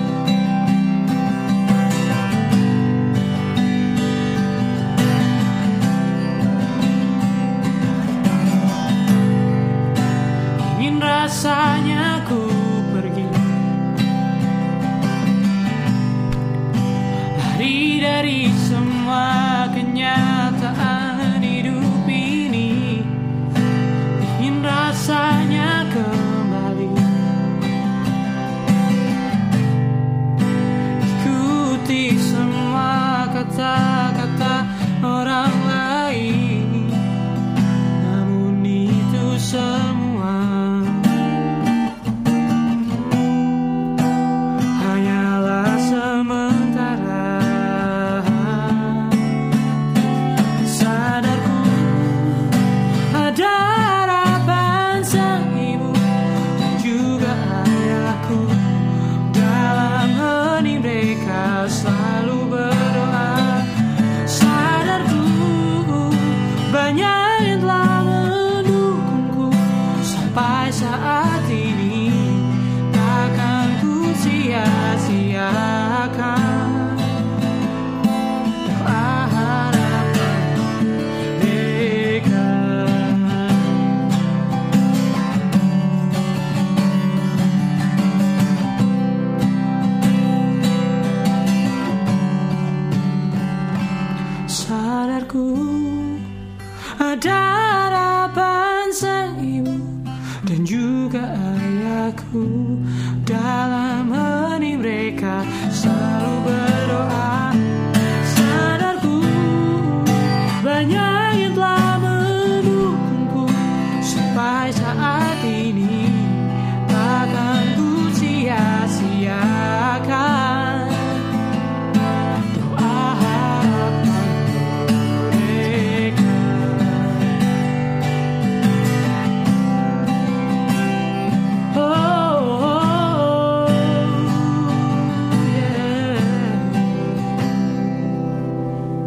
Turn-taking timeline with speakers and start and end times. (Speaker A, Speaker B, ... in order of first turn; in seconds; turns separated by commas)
Speaker A: 10.6-13.4, Speaker A: 17.3-23.1, Speaker A: 24.4-27.1, Speaker A: 31.1-37.0, Speaker A: 38.0-41.1, Speaker A: 44.8-49.2, Speaker A: 50.6-52.6, Speaker A: 53.1-56.0, Speaker A: 56.6-58.7, Speaker A: 59.3-63.6, Speaker A: 64.2-77.0, Speaker A: 78.7-80.5, Speaker A: 81.4-83.3, Speaker A: 94.5-96.2, Speaker A: 97.0-107.6, Speaker A: 108.2-121.1, Speaker A: 122.5-127.2, Speaker A: 131.7-134.1, Speaker A: 135.5-136.5